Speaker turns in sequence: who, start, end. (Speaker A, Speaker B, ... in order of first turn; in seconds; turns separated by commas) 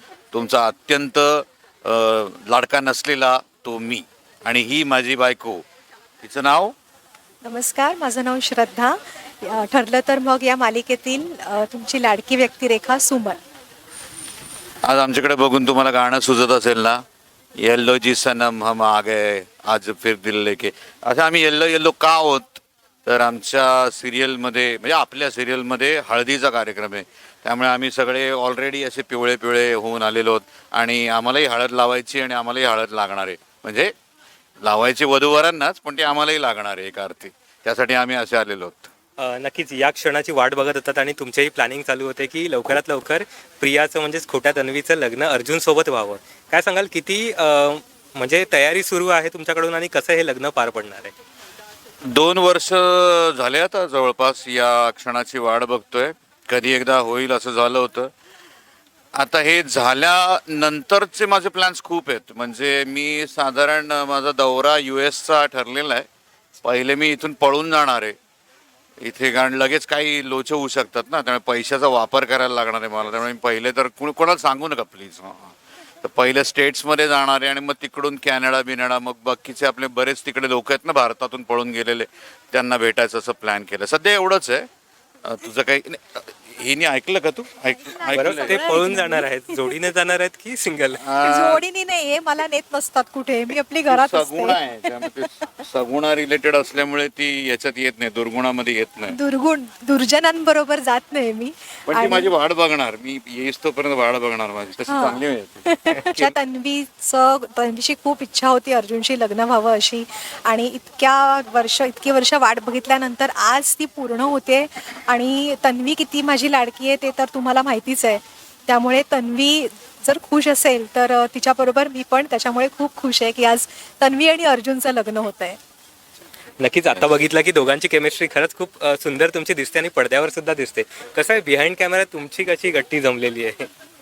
Speaker A: 0.3-5.6, Speaker A: 6.2-6.7, Speaker B: 7.4-13.4, Speaker A: 14.8-17.0, Speaker A: 17.6-33.9, Speaker A: 34.6-38.9, Speaker C: 39.2-51.1, Speaker A: 52.1-58.1, Speaker A: 59.1-66.0, Speaker A: 66.6-68.1, Speaker A: 69.0-84.7, Speaker A: 85.2-88.9, Speaker B: 87.8-89.2, Speaker C: 88.1-91.0, Speaker A: 91.0-91.6, Speaker B: 91.2-95.5, Speaker A: 93.9-99.2, Speaker B: 99.1-102.3, Speaker A: 101.9-105.7, Speaker B: 104.9-125.6, Speaker C: 105.9-106.3, Speaker C: 126.6-133.7